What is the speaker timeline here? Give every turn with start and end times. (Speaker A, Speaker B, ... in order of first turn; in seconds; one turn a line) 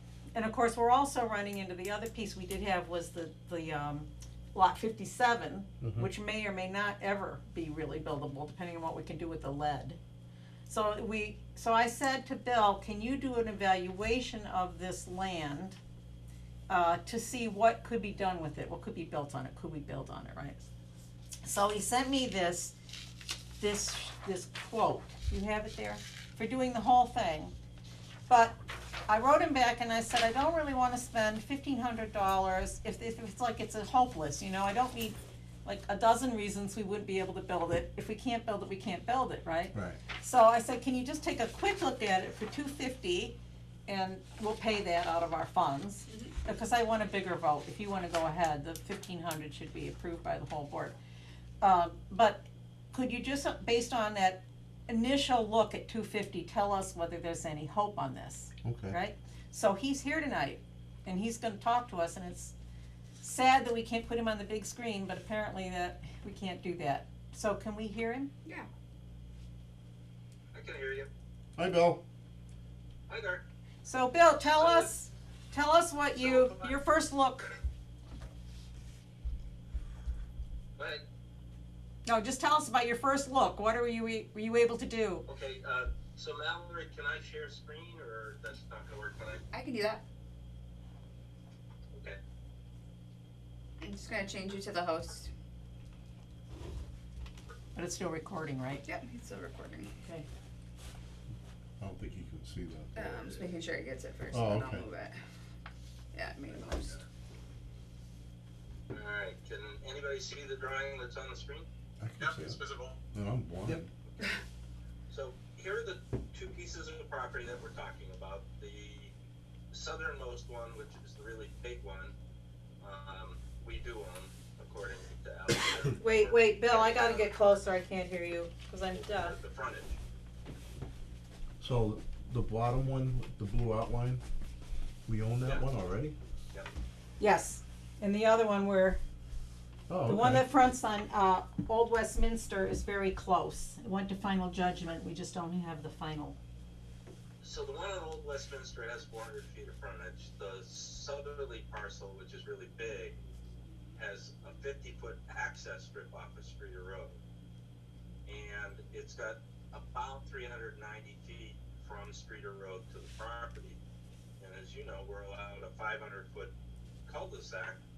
Speaker A: 0.3-10.0
Speaker B: 5.8-6.1
Speaker A: 10.7-15.8
Speaker A: 16.7-20.6
Speaker A: 21.4-22.8
Speaker A: 23.6-27.5
Speaker A: 28.3-28.6
Speaker A: 29.1-43.4
Speaker B: 39.7-40.0
Speaker A: 43.9-51.0
Speaker A: 51.6-62.5
Speaker B: 58.6-59.0
Speaker A: 63.2-68.3
Speaker C: 70.5-71.1
Speaker B: 71.6-72.0
Speaker C: 73.1-73.4
Speaker A: 73.8-77.5
Speaker C: 74.4-74.9
Speaker C: 76.2-76.8
Speaker C: 80.8-81.0
Speaker A: 82.0-85.3
Speaker C: 85.3-89.5
Speaker D: 89.5-90.0
Speaker C: 91.9-92.2
Speaker D: 93.8-95.3
Speaker A: 97.8-98.9
Speaker D: 98.8-99.9
Speaker B: 101.8-103.4
Speaker D: 103.0-105.2
Speaker B: 104.3-104.9
Speaker D: 106.1-107.0
Speaker C: 106.5-107.0
Speaker C: 108.9-111.7
Speaker B: 112.0-112.6
Speaker C: 112.2-113.0
Speaker B: 113.1-113.9
Speaker C: 115.1-119.1
Speaker C: 119.7-122.1
Speaker C: 122.8-127.6
Speaker A: 126.0-129.4
Speaker C: 128.9-130.0
Speaker B: 131.6-134.2
Speaker B: 135.1-136.2
Speaker A: 137.2-139.0
Speaker B: 139.9-140.5
Speaker A: 140.1-146.4
Speaker C: 147.4-153.2
Speaker C: 154.0-157.2
Speaker C: 158.3-163.8
Speaker C: 164.4-166.5
Speaker C: 167.1-167.8